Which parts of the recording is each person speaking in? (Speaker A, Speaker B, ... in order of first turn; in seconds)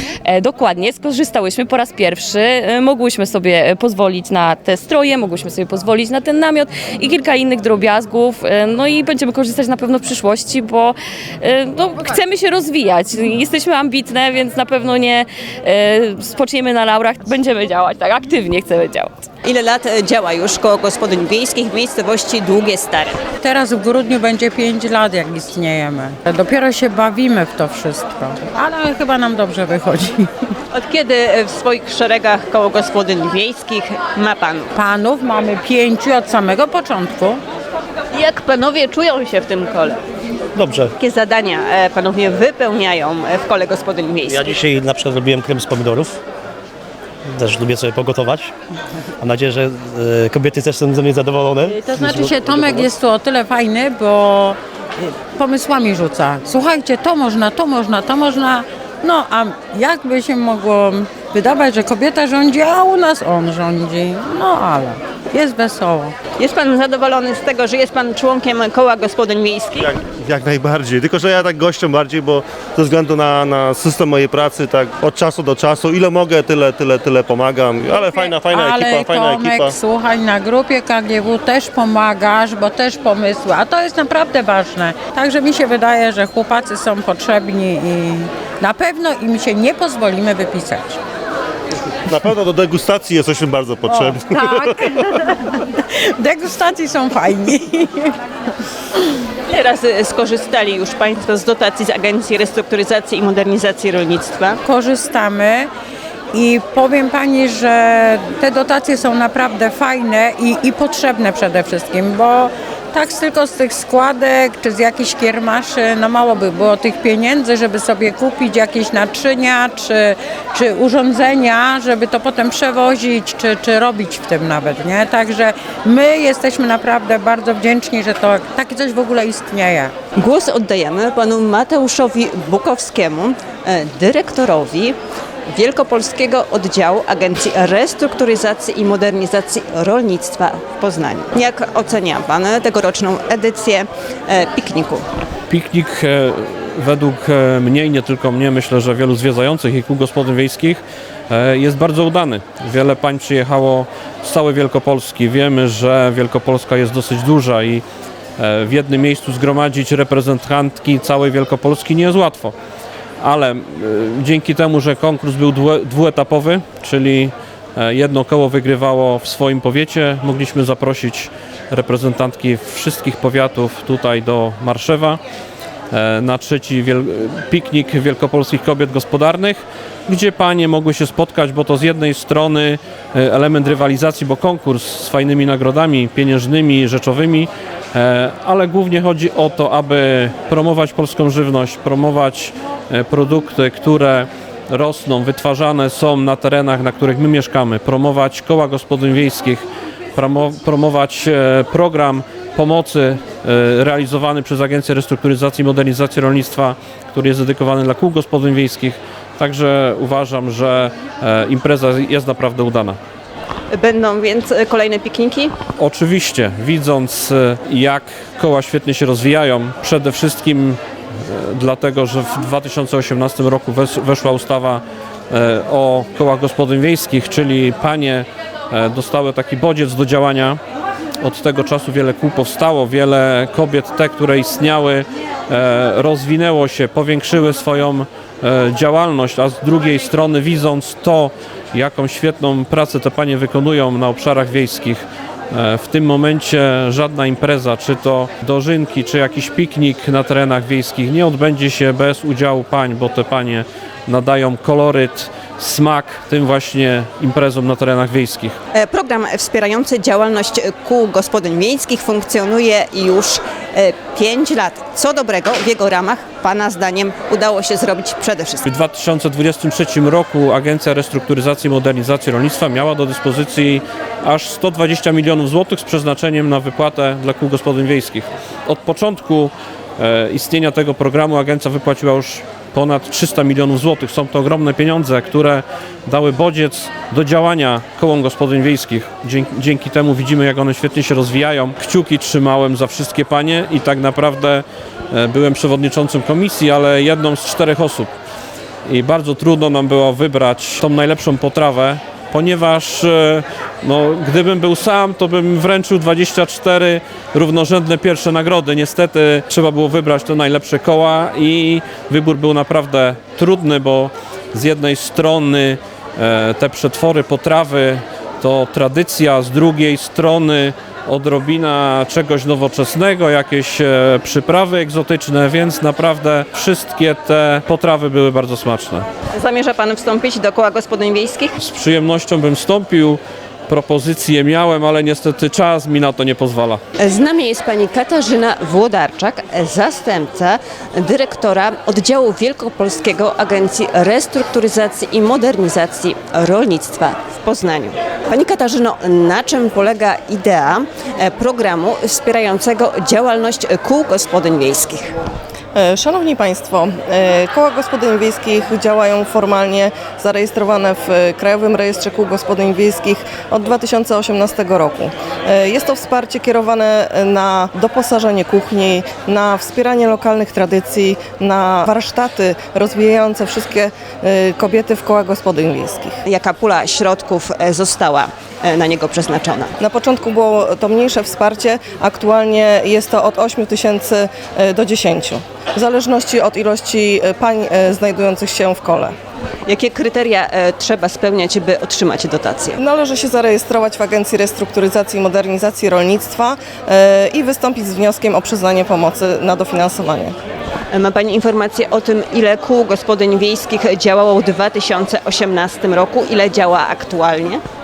Speaker A: 0.2-19.2
Speaker B: 19.4-23.2, 30.7-34.7, 38.1-40.0, 41.0-44.6, 66.4-70.0, 99.5-104.6, 130.2-135.0, 135.5-145.1, 213.7-215.5, 258.7-268.7, 329.3-331.5, 337.0-355.1, 376.3-379.7, 389.7-392.8, 400.9-407.6
Speaker C: 23.4-30.3, 34.8-37.4, 51.7-66.1, 77.9-91.0, 93.9-98.2, 104.6-105.7, 106.3-129.9
Speaker D: 40.6-40.9, 44.3-46.2, 47.3-48.5, 49.2-52.9
Speaker E: 69.9-79.7, 92.1-94.8
Speaker F: 145.5-157.8, 158.4-162.5, 163.2-175.2, 175.9-199.6, 200.2-213.0, 215.8-230.6, 231.2-258.6, 268.7-298.1, 298.9-329.1, 331.6-336.8
Speaker G: 355.8-376.2, 379.8-389.1, 392.8-400.4